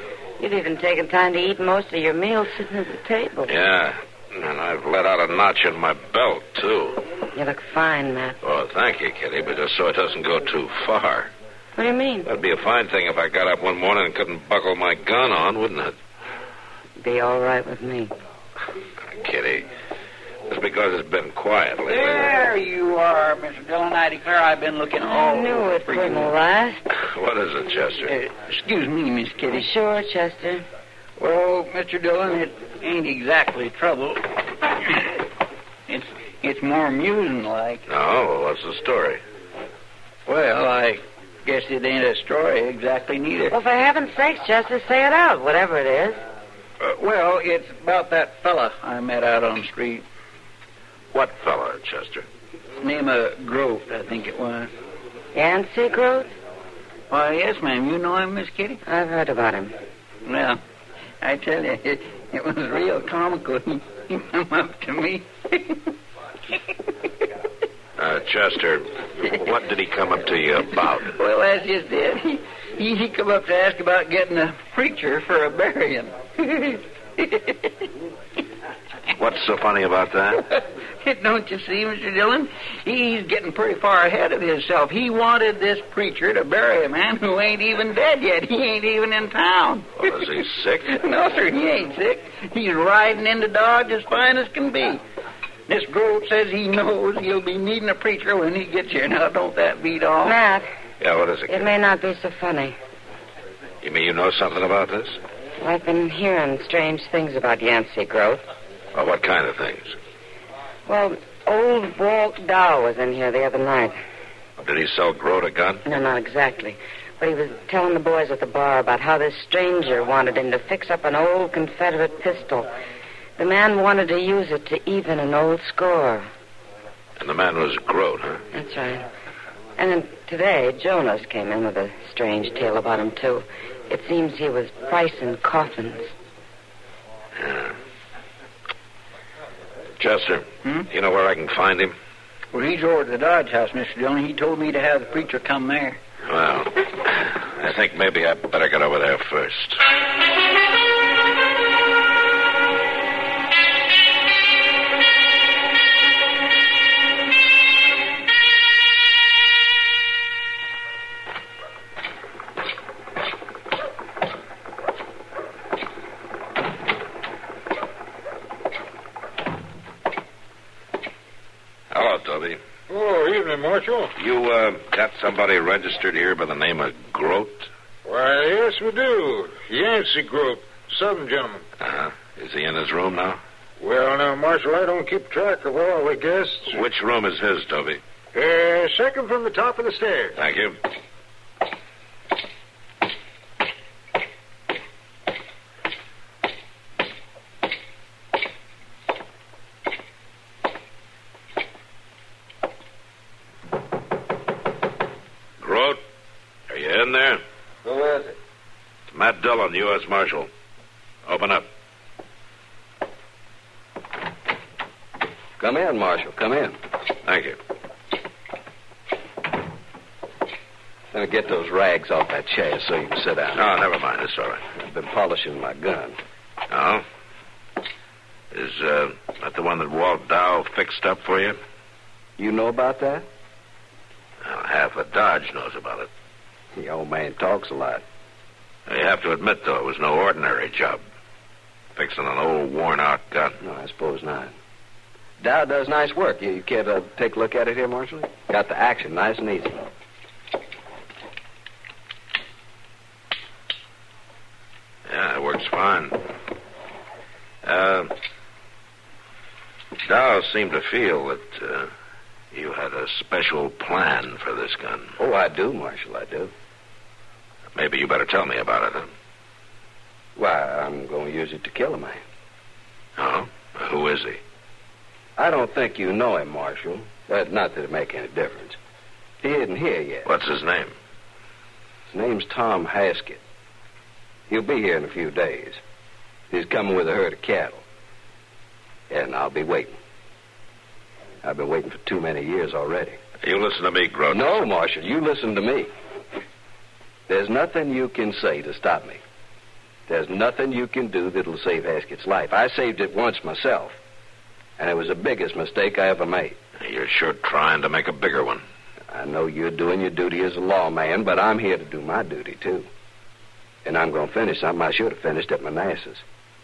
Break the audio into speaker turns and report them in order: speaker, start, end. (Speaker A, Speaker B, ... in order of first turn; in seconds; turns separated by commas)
Speaker A: 0.4-3.5, Speaker B: 3.5-7.0, Speaker A: 7.3-8.4, Speaker B: 8.4-11.3, Speaker A: 11.8-12.3, Speaker B: 12.2-15.9, Speaker A: 17.0-18.1, Speaker B: 19.2-19.7, Speaker B: 20.5-22.4, Speaker C: 21.8-26.3, Speaker A: 25.0-26.9, Speaker B: 27.0-28.1, Speaker C: 28.0-29.7, Speaker A: 29.5-30.6, Speaker C: 31.2-34.3, Speaker C: 34.8-35.1, Speaker C: 35.9-37.8, Speaker B: 37.9-39.2, Speaker C: 40.3-43.5, Speaker A: 43.5-46.2, Speaker C: 46.8-50.0, Speaker B: 51.1-52.2, Speaker C: 52.8-54.7, Speaker A: 55.3-56.3, Speaker C: 57.1-58.8, Speaker A: 58.9-59.8, Speaker C: 60.2-60.6, Speaker C: 61.2-65.9, Speaker B: 68.0-71.1, Speaker C: 71.0-77.7, Speaker B: 79.2-80.5, Speaker C: 80.5-90.2, Speaker B: 90.0-90.9, Speaker C: 90.8-95.0, Speaker C: 95.7-100.4, Speaker A: 100.2-100.7, Speaker B: 101.0-101.7, Speaker A: 101.5-102.8, Speaker B: 103.8-105.2, Speaker A: 105.6-108.4, Speaker B: 108.9-109.9, Speaker A: 110.9-114.0, Speaker B: 114.6-115.8, Speaker A: 115.8-122.7, Speaker A: 123.4-126.3, Speaker B: 127.2-128.4, Speaker A: 128.5-129.1, Speaker A: 129.8-136.1, Speaker B: 137.3-137.8, Speaker B: 140.0-141.9, Speaker C: 142.5-146.0, Speaker B: 146.2-149.8, Speaker B: 171.9-172.6, Speaker D: 172.9-174.1, Speaker B: 174.2-177.7, Speaker D: 178.0-181.6, Speaker B: 181.8-183.4, Speaker D: 183.8-186.8, Speaker B: 186.7-188.0, Speaker D: 188.3-190.4, Speaker B: 190.3-190.8, Speaker B: 205.6-206.0, Speaker B: 206.7-207.4, Speaker E: 207.8-208.3, Speaker B: 209.1-210.5, Speaker B: 211.2-211.7, Speaker E: 215.6-216.8, Speaker B: 217.2-217.6, Speaker E: 221.1-223.7, Speaker B: 223.5-224.6, Speaker E: 224.7-226.2, Speaker B: 226.7-227.0, Speaker B: 228.5-231.6, Speaker E: 232.4-233.2, Speaker B: 234.4-236.1, Speaker E: 236.7-238.0, Speaker B: 238.9-241.0, Speaker B: 241.9-243.6, Speaker E: 243.6-244.5, Speaker E: 245.4-249.8, Speaker B: 255.1-256.2, Speaker B: 257.6-258.1, Speaker B: 260.0-261.9, Speaker B: 262.5-265.1, Speaker E: 265.2-266.5, Speaker B: 267.7-269.1, Speaker E: 270.4-272.2, Speaker B: 273.2-274.4, Speaker E: 275.4-278.8, Speaker E: 279.4-280.3, Speaker B: 280.2-280.9, Speaker E: 282.1-283.4, Speaker E: 284.5-285.8, Speaker E: 286.5-287.8, Speaker E: 289.1-290.0, Speaker E: 291.4-293.2, Speaker B: 293.4-294.6, Speaker E: 294.3-295.9, Speaker E: 297.3-299.2, Speaker E: 300.1-304.0, Speaker E: 304.8-306.6, Speaker B: 306.8-308.6, Speaker E: 309.1-312.9, Speaker E: 313.8-316.2